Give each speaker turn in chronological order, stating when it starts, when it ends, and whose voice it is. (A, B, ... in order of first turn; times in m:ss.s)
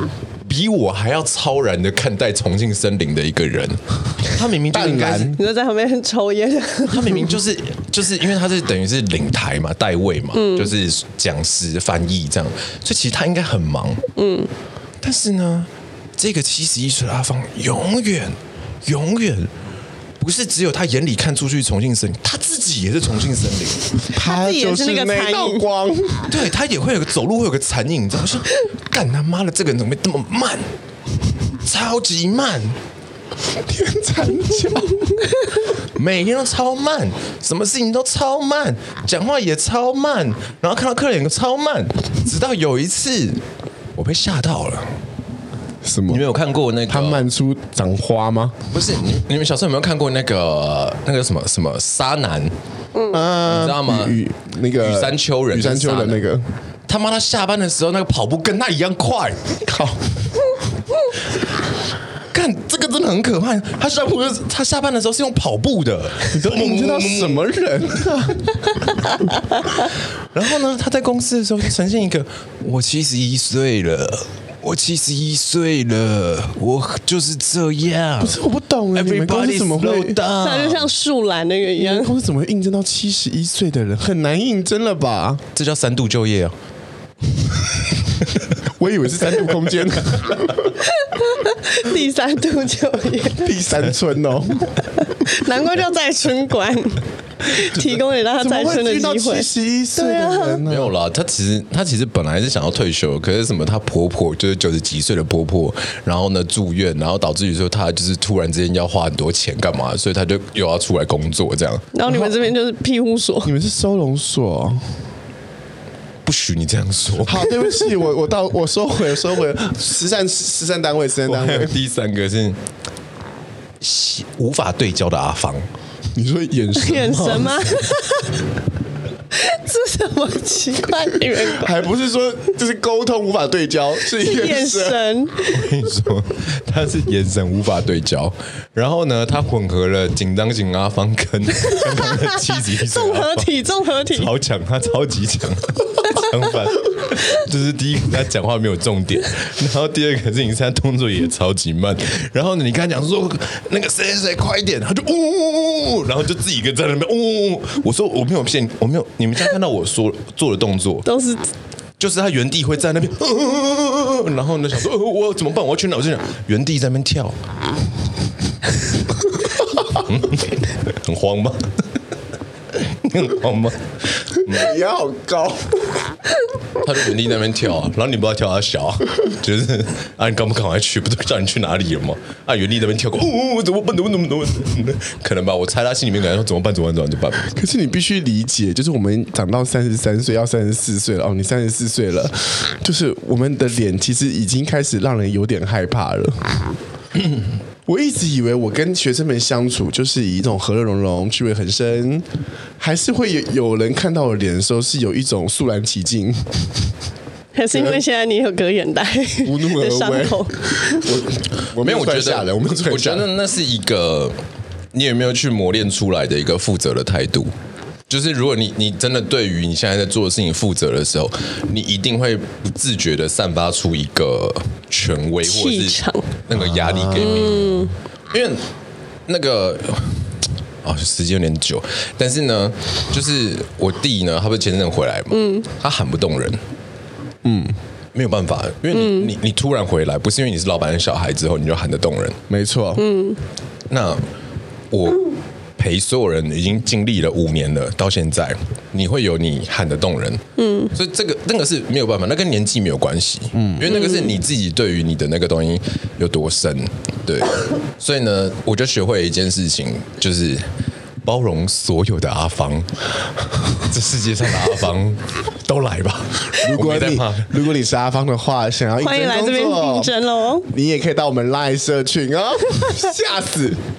0:00.4-0:05.4 A
0:04.7-0:05.4 B
0:05.4-0:07.2 C
0:06.9-0:14.0 A
0:10.3-0:10.7 C
0:14.2-0:14.5 C
0:15.0-0:19.5 A
0:20.2-0:23.9 A
0:24.1-0:26.3 B
0:24.1-0:25.6 C
0:26.3-0:30.7 A
0:31.6-0:32.8 A
0:33.6-0:35.3 B
0:35.9-0:43.4 A
0:44.0-0:44.9 A
0:45.8-0:46.2 B
0:46.1-0:47.2 A
0:46.9-0:48.6 B
0:48.7-0:52.5 A
0:53.0-0:53.2 C
0:53.1-0:56.4 B
0:53.4-0:54.2 A
0:54.8-0:56.2 A
0:56.9-0:59.5 A
0:59.6-1:00.0 B
1:02.3-1:07.5 A
1:06.3-1:08.4 B
1:10.3-1:18.4 A
1:18.2-1:20.2 B
1:18.9-1:20.9 A
1:20.4-1:22.1 C
1:21.8-1:25.4 B
1:25.6-1:26.6 A
1:28.6-1:30.7 B
1:30.9-1:33.5 C
1:33.4-1:34.8 B
1:35.0-1:40.6 C
1:38.4-1:40.9 B
1:40.7-1:51.9 A
1:51.9-1:53.5 C
1:52.0-1:52.5 B
1:53.4-1:54.9 B
1:56.2-1:57.5 A
1:57.2-2:01.8 B
2:01.2-2:02.6 A
2:03.8-2:05.7 A
2:06.2-2:07.8 B
2:06.8-2:08.4 C
2:09.3-2:11.8 C
2:11.2-2:15.0 B
2:14.1-2:15.7 C
2:15.4-2:41.1 A
2:21.7-2:24.3 C
2:41.0-2:41.5 C
2:42.0-2:47.4 A
2:49.9-2:51.6 A
2:52.7-2:54.8 A
2:54.5-2:55.8 B
2:56.8-3:07.6 A
3:07.6-3:16.4 B
3:17.9-3:22.2 B
3:22.8-3:26.7 B
3:27.5-3:31.1 C
3:27.7-3:28.0 B
3:29.4-3:33.3 B
3:31.8-3:34.4 A
3:34.9-3:37.5 A
3:38.1-3:48.6 A
3:45.4-3:46.3 C
3:46.5-3:47.3 B
3:47.2-3:47.9 C
3:49.3-3:50.3 A
3:50.8-3:56.6 A
3:55.3-3:55.6 C
3:57.4-3:57.7 B
3:58.1-4:02.4 A
3:58.9-3:59.3 C
4:02.5-4:03.1 B
4:03.0-4:03.4 C
4:03.9-4:04.2 A
4:04.9-4:05.3 A
4:05.8-4:10.4 A
4:10.6-4:10.9 C
4:10.9-4:20.6 A
4:13.9-4:14.4 C
4:21.2-4:22.9 A
4:23.8-4:27.6 A
4:26.6-4:30.1 B
4:29.0-4:30.7 C
4:30.7-4:33.8 B